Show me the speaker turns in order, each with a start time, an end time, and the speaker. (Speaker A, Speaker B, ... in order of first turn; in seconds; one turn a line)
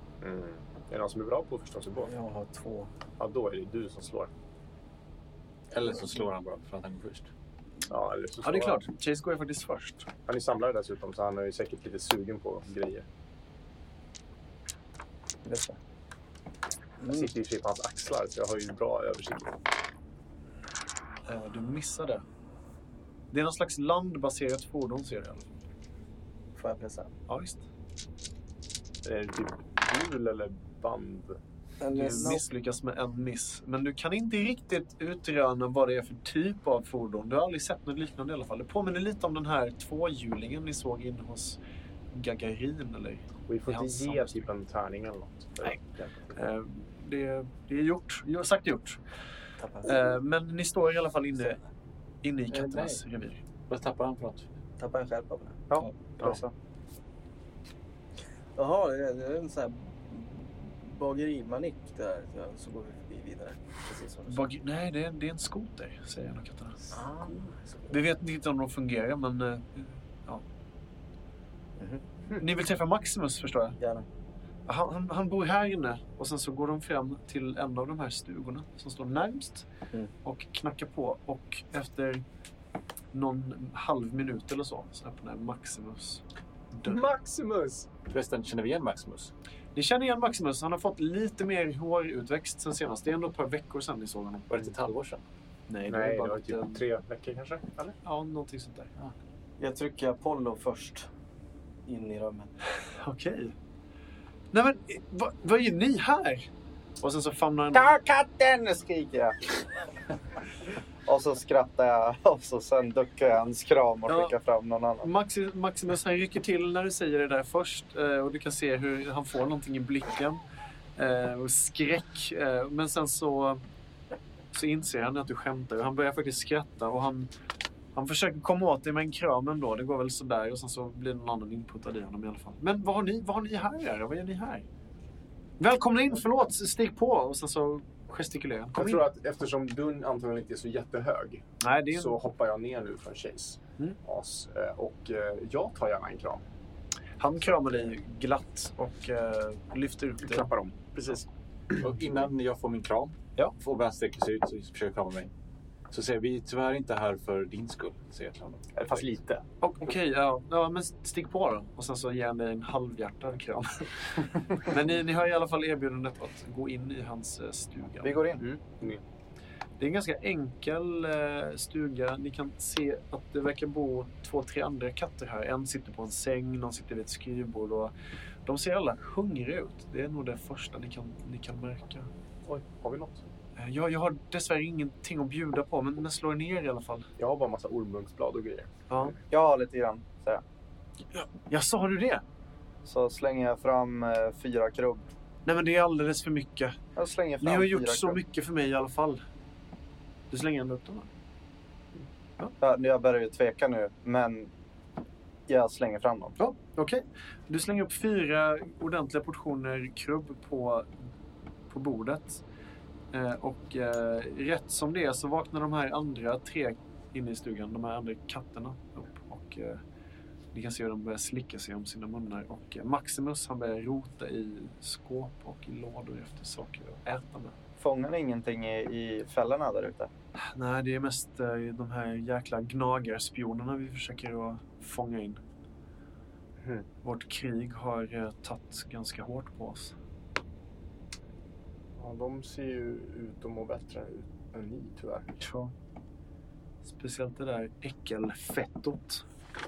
Speaker A: 0.2-2.1
Speaker B: 2.1-2.9
Speaker A: 3.2-4.3
Speaker C: 5.7-7.3
Speaker A: 7.9-8.9
Speaker D: 8.4-10.1
Speaker A: 10.3-13.1
Speaker A: 17.0-19.6
Speaker D: 21.3-22.2
Speaker D: 23.3-25.5
Speaker B: 26.6-27.1
Speaker D: 27.3-27.6
Speaker A: 29.0-31.4
Speaker B: 31.8-32.4
Speaker D: 31.9-41.6
Speaker D: 42.1-44.5
Speaker A: 43.5-46.4
Speaker D: 46.3-49.0
Speaker B: 49.6-50.1
Speaker D: 49.8-51.6
Speaker D: 52.2-53.4
Speaker C: 52.5-53.0
Speaker C: 53.7-54.5
Speaker B: 54.8-55.6
Speaker E: 55.7-56.5
Speaker B: 58.6-64.5
Speaker D: 64.3-67.0
Speaker B: 66.9-68.0
Speaker D: 67.9-70.4
Speaker B: 71.8-72.0
Speaker D: 72.4-73.8
Speaker B: 73.8-74.1
Speaker D: 74.7-79.7
Speaker D: 80.2-82.2
Speaker D: 83.1-87.0
Speaker A: 86.8-87.9
Speaker C: 88.1-89.3
Speaker D: 89.8-94.7
Speaker C: 94.5-95.2
Speaker D: 95.7-96.8
Speaker A: 95.9-98.0
Speaker D: 98.0-98.9
Speaker B: 99.6-101.1
Speaker B: 101.9-102.5
Speaker D: 103.0-103.5
Speaker D: 104.5-106.5
Speaker D: 107.0-108.0
Speaker E: 107.7-109.5
Speaker E: 111.1-115.1
Speaker D: 114.1-114.3
Speaker D: 115.0-120.4
Speaker D: 121.0-123.7
Speaker D: 124.5-127.3
Speaker D: 127.9-134.7
Speaker D: 135.6-139.1
Speaker A: 138.8-146.4
Speaker D: 141.6-142.2
Speaker D: 147.2-151.2
Speaker A: 147.5-147.9
Speaker A: 150.2-151.2
Speaker A: 151.8-152.2
Speaker C: 151.8-155.3
Speaker C: 155.9-159.1
Speaker A: 158.7-159.4
Speaker D: 159.6-168.3
Speaker E: 168.0-168.4
Speaker A: 168.4-169.0
Speaker D: 169.8-177.9
Speaker D: 178.5-182.1
Speaker A: 182.5-183.2
Speaker D: 183.6-187.1
Speaker A: 187.2-189.2
Speaker E: 189.3-190.4
Speaker D: 191.1-192.2
Speaker E: 192.8-195.1
Speaker D: 195.5-196.8
Speaker E: 197.0-198.2
Speaker D: 197.4-199.2
Speaker D: 200.3-201.1
Speaker E: 202.6-204.5
Speaker E: 205.5-206.4
Speaker D: 206.4-211.0
Speaker D: 211.7-212.4
Speaker D: 213.1-219.8
Speaker D: 220.5-227.6
Speaker E: 227.8-230.1
Speaker D: 230.4-235.4
Speaker A: 236.6-236.9
Speaker D: 237.0-239.9
Speaker A: 242.0-245.4
Speaker D: 245.4-245.7
Speaker D: 246.8-249.2